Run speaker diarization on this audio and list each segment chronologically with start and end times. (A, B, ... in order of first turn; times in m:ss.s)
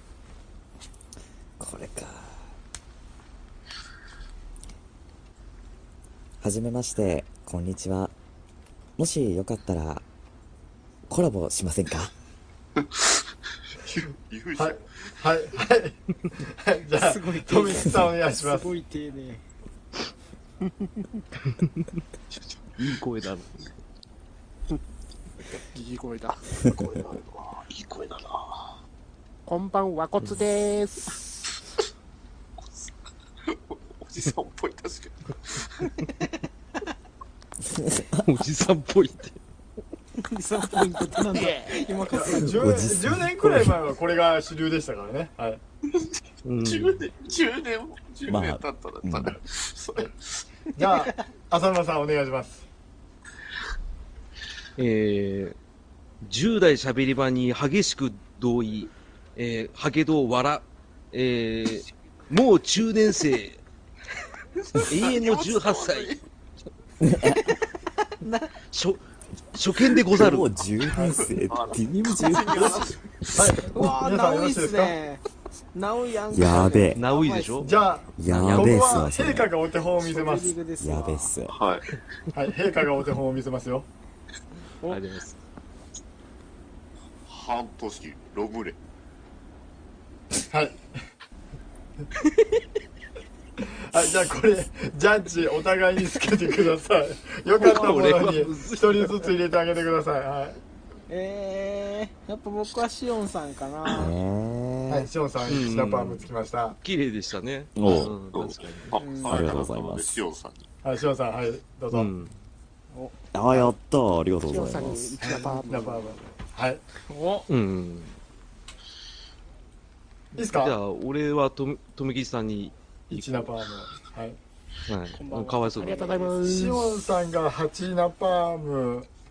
0:01.6-0:02.5 A
0:06.4-0:08.1 A
0:09.0-0:10.0 A
0:11.1-0:12.1 A
0:13.8-0:14.8 B
0:14.6-0:18.7 C
0:16.9-0:19.4 D
0:21.6-0:21.9 E
0:22.8-0:23.7 E
0:25.7-0:26.6 F
0:26.7-0:28.4 B
0:29.4-0:31.2 F
0:33.5-0:35.9 B
0:37.7-0:38.2 A
0:38.2-0:39.4 E
0:40.2-0:42.7 D
0:41.3-0:41.8 F
0:42.1-0:45.6 C
0:42.4-0:43.7 A
0:45.9-0:50.1 B
0:46.4-0:47.0 E
0:48.3-0:49.4 A
0:50.8-0:52.6 C
0:54.8-0:55.6 E
0:56.2-1:03.6 E
1:04.7-1:06.2 B
1:04.8-1:06.2 E
1:07.0-1:07.4 A
1:08.2-1:08.5 D
1:08.7-1:09.0 E
1:09.5-1:10.5 E
1:10.1-1:13.6 A
1:11.0-1:13.0 B
1:13.3-1:15.0 C
1:13.7-1:17.7 D
1:16.3-1:17.0 A
1:17.0-1:17.7 E
1:17.6-1:20.6 C
1:18.2-1:19.5 A
1:18.2-1:19.0 E
1:20.0-1:21.4 D
1:20.8-1:21.6 A
1:21.5-1:21.8 B
1:22.3-1:23.9 C
1:24.9-1:25.4 E
1:27.3-1:28.8 B
1:30.5-1:30.8 C
1:33.6-1:40.6 C
1:37.6-1:39.3 E
1:41.1-1:44.1 D
1:43.9-1:45.1 A
1:44.9-1:46.8 C
1:45.4-1:46.3 E
1:46.8-1:49.0 E
1:47.8-1:48.1 A
1:48.3-1:50.6 B
1:49.0-1:49.4 D
1:49.3-1:50.2 A
1:50.8-1:52.1 C
1:51.9-1:52.3 E
1:53.3-1:55.2 A
1:54.4-1:56.2 F
1:55.2-1:56.8 C
1:57.1-1:57.5 D
1:57.5-1:58.2 E
2:00.3-2:00.8 C
2:00.4-2:03.5 E
2:03.1-2:04.4 C
2:04.9-2:06.2 E
2:05.1-2:06.4 D
2:05.8-2:06.8 F
2:06.4-2:09.1 C